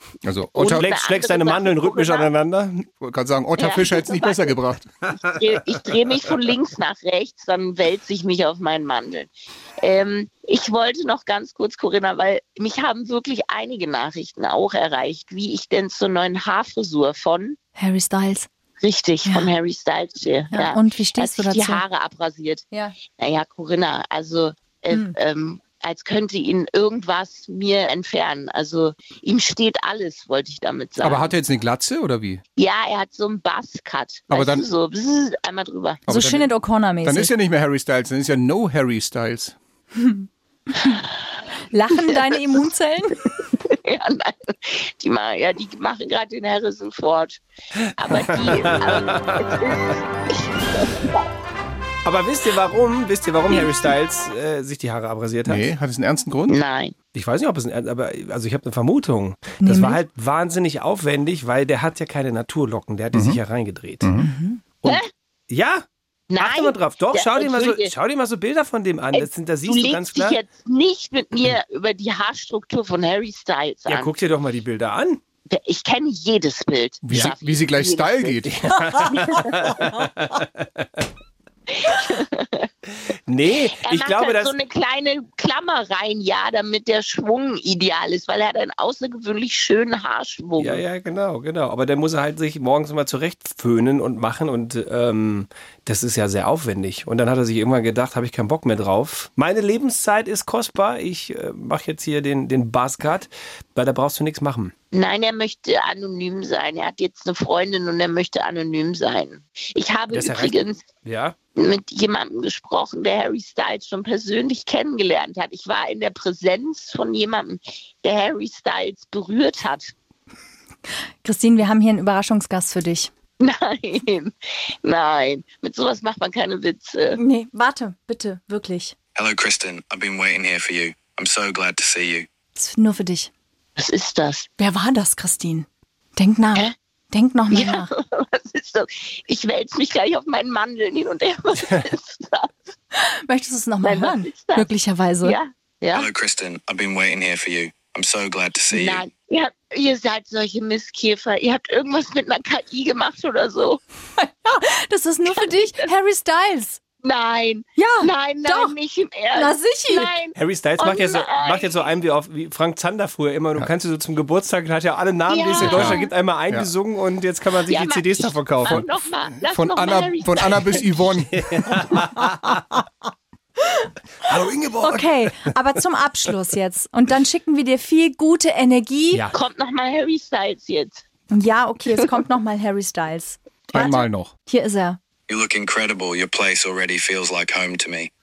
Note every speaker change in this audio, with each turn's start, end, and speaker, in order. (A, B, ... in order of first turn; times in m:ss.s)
0:00.2-0:00.9 A
0:00.6-0:02.8 B
0:00.6-0:02.3 C
0:03.0-0:04.9 A
0:03.6-0:04.5 C
0:05.2-0:17.6 C
0:17.8-0:18.5 D
0:18.8-0:31.3 C
0:19.2-0:19.5 D
0:20.5-0:21.8 D
0:22.7-0:23.0 D
0:24.9-0:25.1 D
0:31.0-0:32.4 A
0:32.6-0:36.0 C
0:34.3-0:34.6 A
0:36.1-0:36.5 A
0:36.1-0:37.3 D
0:37.0-0:39.6 A
0:40.0-0:41.0 D
0:41.7-0:43.2 D
0:42.3-0:42.6 C
0:43.4-0:47.4 C
0:47.9-0:51.2 C
0:48.8-0:49.8 B
0:52.0-0:55.7 B
0:55.4-0:56.6 A
0:56.5-0:56.9 C
0:57.1-1:04.1 B
0:59.6-1:00.0 D
1:03.1-1:03.4 A
1:04.0-1:04.3 A
1:04.2-1:04.6 D
1:04.8-1:05.8 B
1:06.3-1:07.9 C
1:06.4-1:10.4 B
1:09.1-1:14.1 C
1:13.9-1:15.2 B
1:15.5-1:19.9 C
1:17.0-1:18.6 A
1:18.5-1:21.1 B
1:21.7-1:22.7 C
1:23.1-1:24.5 B
1:23.6-1:30.8 C
1:30.6-1:44.7 B
1:44.9-1:50.8 C
1:50.1-1:51.3 B
1:51.6-1:59.9 C
2:01.2-2:03.1 D
2:03.4-2:04.3 C
2:04.8-2:07.2 C
2:07.2-2:08.9 D
2:09.2-2:12.3 E
2:12.5-2:13.3 D
2:13.8-2:14.5 C
2:14.6-2:17.9 D
2:17.5-2:22.7 C
2:23.0-2:25.4 D
2:23.8-2:24.7 C
2:25.2-2:26.1 C
2:25.9-2:29.0 E
2:28.7-2:33.8 C
2:34.2-2:36.8 D
2:35.3-2:35.8 C
2:37.0-2:41.9 C
2:37.8-2:38.7 D
2:39.3-2:40.2 D
2:40.3-2:48.9 B
2:45.3-2:46.0 C
2:45.6-2:46.7 A
2:47.6-2:51.0 C
2:49.4-2:51.7 A
2:51.2-2:52.6 B
2:54.2-2:55.5 B
2:54.8-2:59.2 D
2:59.1-2:59.4 B
2:59.3-3:01.0 C
3:01.3-3:05.0 D
3:03.7-3:04.3 A
3:05.3-3:08.1 E